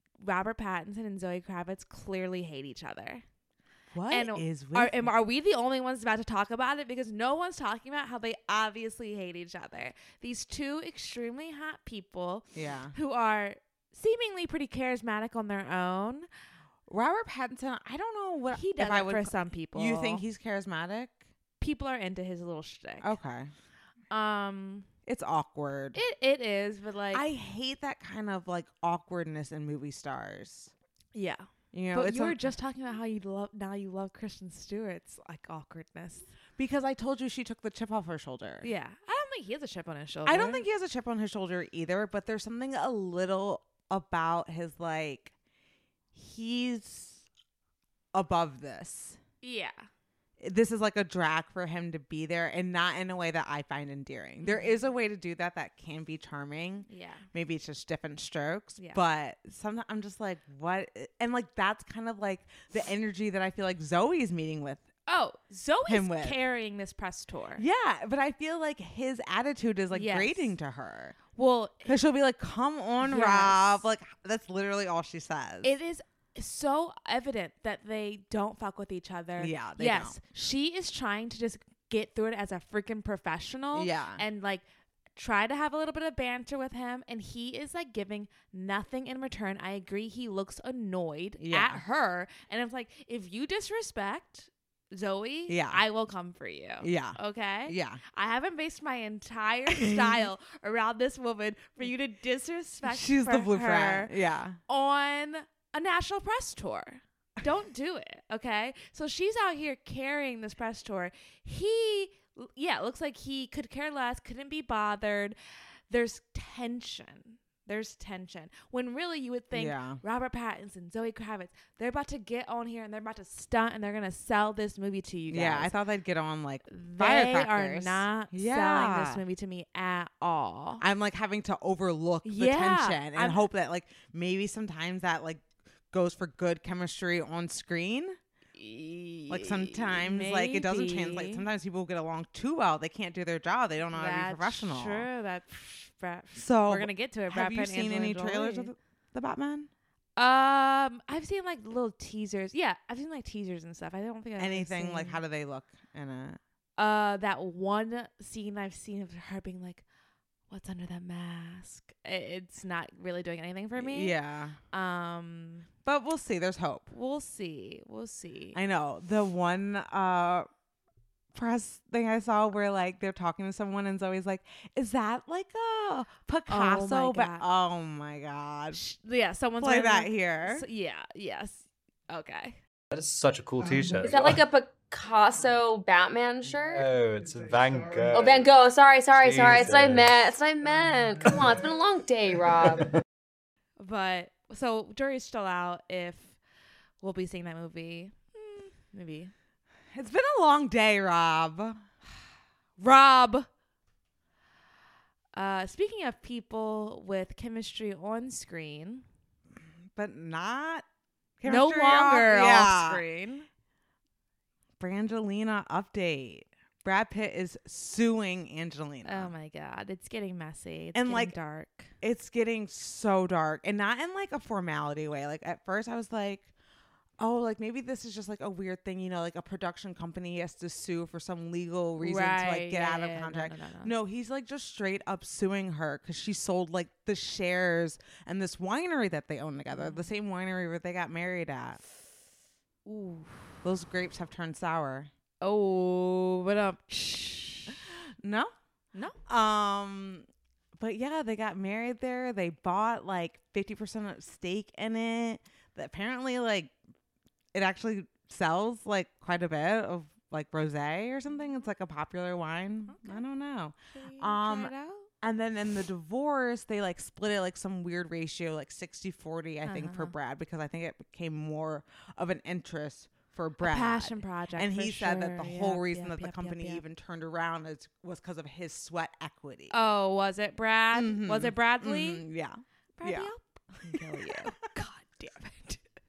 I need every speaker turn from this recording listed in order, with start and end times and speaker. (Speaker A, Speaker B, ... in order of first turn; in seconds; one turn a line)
Speaker A: 0.2-3.2
Speaker B: 3.9-5.1
Speaker A: 4.1-16.3
Speaker B: 12.6-12.9
Speaker B: 16.9-21.2
Speaker A: 18.5-20.2
Speaker A: 21.6-23.2
Speaker B: 23.0-23.5
Speaker A: 24.1-24.9
Speaker B: 25.1-26.0
Speaker A: 25.9-27.3
Speaker B: 27.1-30.7
Speaker A: 31.1-36.3
Speaker B: 31.7-32.4
Speaker B: 36.6-38.7
Speaker A: 38.6-40.7
Speaker B: 40.3-45.3
Speaker B: 46.1-47.2
Speaker B: 48.1-49.2
Speaker A: 49.4-49.9
Speaker B: 50.4-64.8
Speaker A: 54.4-54.8
Speaker A: 56.9-57.2
Speaker A: 65.1-67.6
Speaker B: 65.9-66.4
Speaker B: 67.6-71.2
Speaker A: 69.9-70.5
Speaker A: 71.3-71.9
Speaker B: 71.8-75.8
Speaker A: 73.0-73.8
Speaker A: 75.6-84.6
Speaker B: 79.4-80.2
Speaker B: 83.7-84.2
Speaker A: 85.2-104.1
Speaker B: 91.4-91.8
Speaker B: 95.5-95.8
Speaker B: 96.8-98.0
Speaker B: 99.7-100.3
Speaker B: 102.8-104.6
Speaker A: 104.7-115.4
Speaker A: 115.9-125.7
Speaker B: 119.5-120.0
Speaker B: 125.3-129.2
Speaker A: 126.7-130.8
Speaker B: 130.8-138.2
Speaker A: 132.2-133.4
Speaker A: 138.6-141.4
Speaker B: 139.3-145.1
Speaker A: 143.9-148.7
Speaker B: 146.4-149.7
Speaker A: 150.2-155.2
Speaker B: 154.4-156.4
Speaker A: 156.8-159.8
Speaker A: 160.5-164.2
Speaker B: 163.8-164.6
Speaker A: 164.7-165.7
Speaker B: 165.8-166.9
Speaker A: 166.9-168.6
Speaker B: 168.5-170.5
Speaker B: 171.3-178.8
Speaker A: 176.5-177.5
Speaker A: 178.7-182.6
Speaker B: 179.6-180.7
Speaker C: 182.9-184.4
Speaker D: 183.9-186.9
Speaker C: 186.8-188.5
Speaker D: 188.1-192.9
Speaker C: 189.2-190.1
Speaker A: 193.8-196.4
Speaker A: 197.0-199.3
Speaker B: 199.9-201.8
Speaker A: 202.8-203.5
Speaker A: 205.3-209.1
Speaker B: 209.9-210.9
Speaker B: 211.4-213.0
Speaker A: 211.4-213.5
Speaker B: 214.8-219.3
Speaker A: 219.1-221.9
Speaker B: 220.9-221.3
Speaker B: 222.0-226.5
Speaker B: 227.2-241.8
Speaker A: 232.0-233.9
Speaker A: 239.7-240.1
Speaker A: 242.8-243.5
Speaker B: 243.6-245.1
Speaker A: 245.4-247.8
Speaker B: 248.2-248.5
Speaker B: 249.3-256.7
Speaker B: 257.5-279.8
Speaker A: 262.9-263.2
Speaker A: 263.9-265.1
Speaker A: 269.6-270.1
Speaker A: 273.6-276.8
Speaker A: 279.7-282.2
Speaker B: 280.9-283.3
Speaker A: 283.0-285.8
Speaker B: 283.9-284.5